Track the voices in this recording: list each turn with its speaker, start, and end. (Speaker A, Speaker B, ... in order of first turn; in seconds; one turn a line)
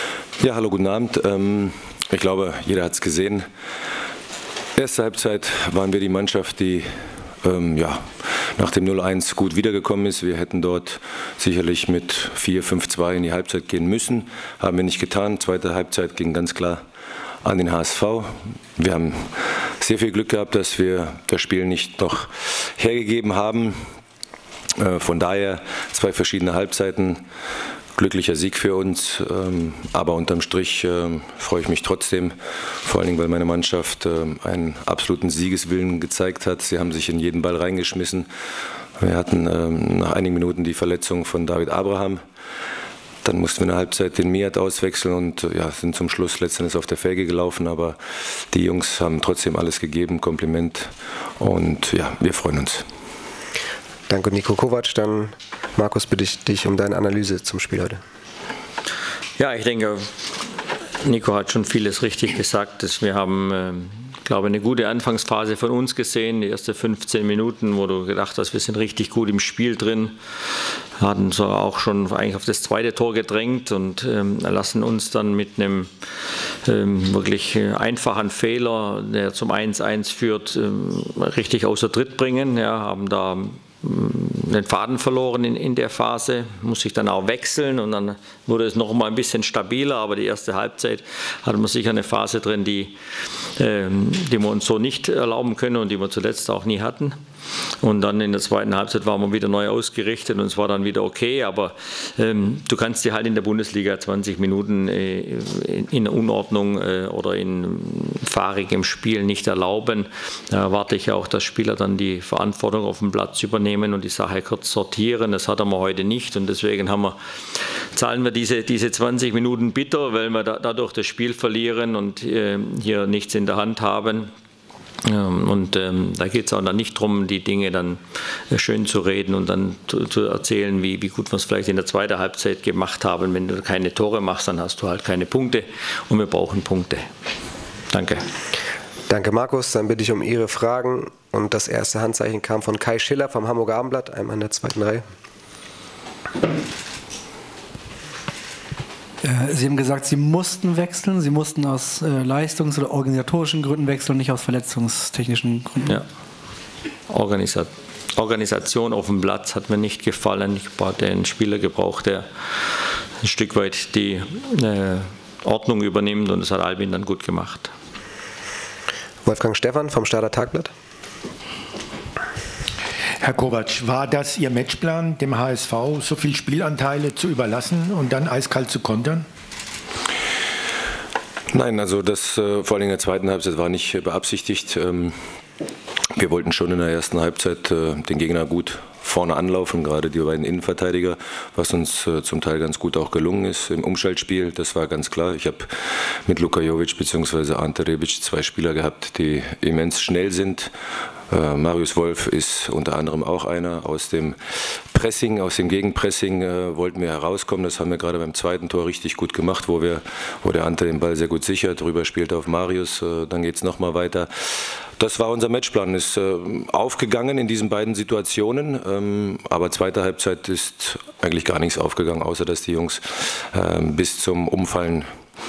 Speaker A: 0.4-3.5
Speaker A: 4.8-6.9
Speaker A: 7.4-16.8
Speaker A: 17.4-23.8
Speaker A: 24.8-27.2
Speaker A: 28.0-38.3
Speaker A: 39.0-42.2
Speaker A: 43.2-48.0
Speaker A: 48.5-52.8
Speaker B: 54.1-58.0
Speaker C: 59.4-60.1
Speaker C: 61.0-75.9
Speaker C: 76.6-93.0
Speaker C: 93.6-97.2
Speaker C: 97.8-124.3
Speaker C: 125.0-137.1
Speaker C: 137.9-138.2
Speaker B: 139.1-145.0
Speaker D: 149.2-155.9
Speaker C: 157.1-167.7
Speaker B: 169.2-170.7
Speaker E: 173.2-179.3
Speaker A: 181.5-185.1
Speaker A: 186.2-200.7
Speaker A: 201.3-225.1